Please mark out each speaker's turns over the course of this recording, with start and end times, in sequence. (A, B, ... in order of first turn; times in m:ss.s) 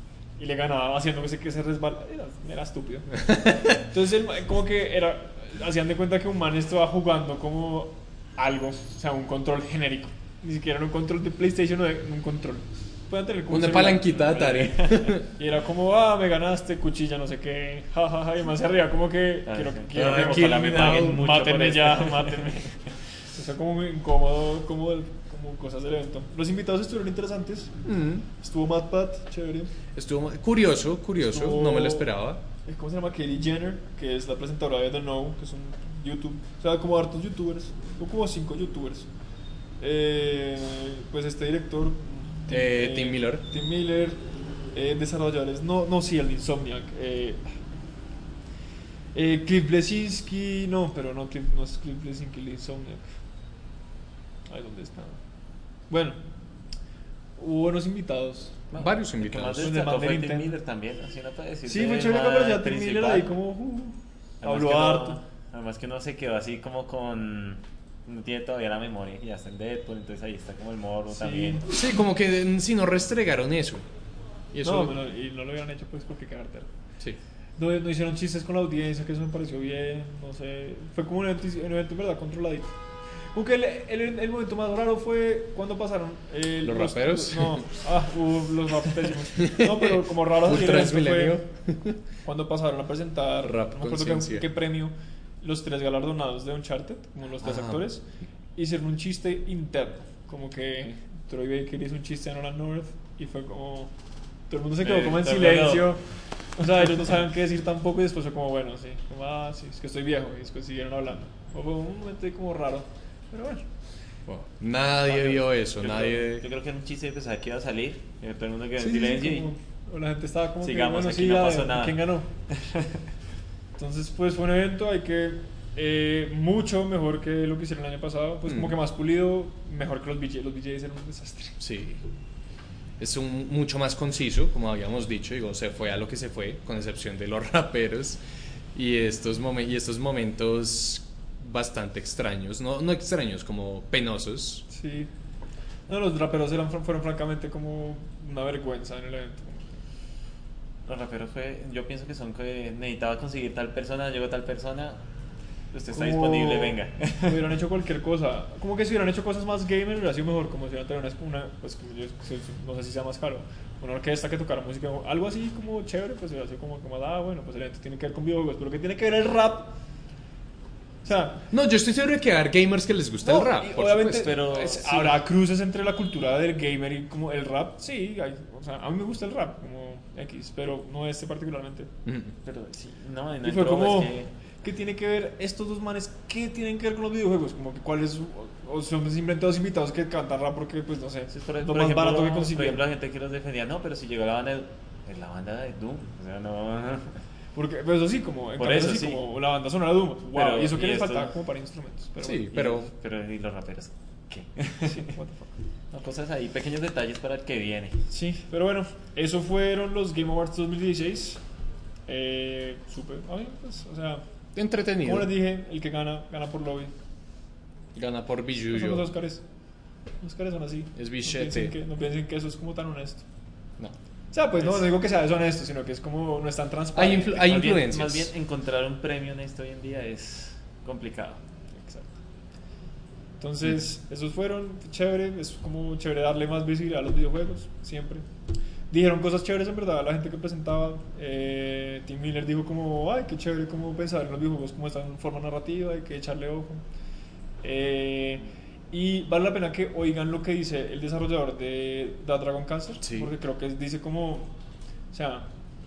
0:00.4-0:27.8 A
0:13.5-0:15.2 B
0:19.5-0:22.6 C
0:19.9-0:21.3 B
0:27.8-0:28.3 B
0:28.4-0:29.7 A
0:30.0-0:32.4 B
0:31.2-0:32.1 A
0:32.6-0:39.1 A
0:39.8-0:44.2 A
0:42.5-0:43.4 B
0:44.7-0:47.5 A
0:49.1-0:53.1 A
0:54.5-0:55.2 A
0:55.9-0:56.2 A
0:57.4-0:58.6 A
0:58.7-1:03.3 C
0:58.8-0:59.8 B
0:59.6-1:00.6 A
1:01.7-1:05.2 A
1:04.4-1:11.7 C
1:11.1-1:11.7 A
1:11.7-1:13.8 B
1:14.5-1:15.0 B
1:14.6-1:16.7 A
1:17.6-1:22.8 A
1:23.3-1:31.4 A
1:26.6-1:27.7 B
1:29.4-1:32.0 B
1:32.2-1:38.0 A
1:33.4-1:34.5 B
1:37.4-1:37.8 B
1:38.6-1:43.9 A
1:44.5-1:46.0 A
1:44.8-1:46.0 C
1:46.6-1:53.6 A
1:54.3-1:56.4 B
1:55.1-1:59.5 C
1:58.8-2:02.3 A
2:00.6-2:03.0 C
2:03.8-2:11.6 A
2:08.5-2:08.8 B
2:11.6-2:12.0 B
2:13.0-2:18.2 B
2:18.7-2:24.6 B
2:24.7-2:25.1 A
2:25.9-2:29.8 A
2:30.9-2:35.0 C
2:35.7-2:37.4 C
2:35.9-2:49.7 A
2:51.0-2:51.4 A
2:51.5-2:54.3 B
2:53.2-3:01.9 A
2:54.1-2:55.2 C
3:02.0-3:02.3 B
3:02.4-3:04.3 C
3:03.4-3:12.8 A
3:11.3-3:17.2 C
3:17.6-3:22.8 A
3:18.6-3:19.2 C
3:20.3-3:21.3 C
3:22.2-3:22.9 B
3:22.5-3:25.1 C
3:24.8-3:25.5 A
3:25.9-3:28.0 C
3:28.1-3:31.4 A
3:32.1-3:34.2 A
3:34.6-3:35.3 B
3:35.0-3:36.9 A
3:38.0-3:39.1 B
3:38.7-3:39.4 A
3:40.2-3:43.2 A
3:41.0-3:41.7 B
3:44.3-3:47.5 A
3:47.0-3:48.3 B
3:47.0-3:51.4 C
3:51.7-3:52.2 A
3:53.4-3:58.2 A
3:58.9-4:06.8 A
4:07.6-4:14.5 A
4:13.0-4:13.3 B
4:15.1-4:15.5 A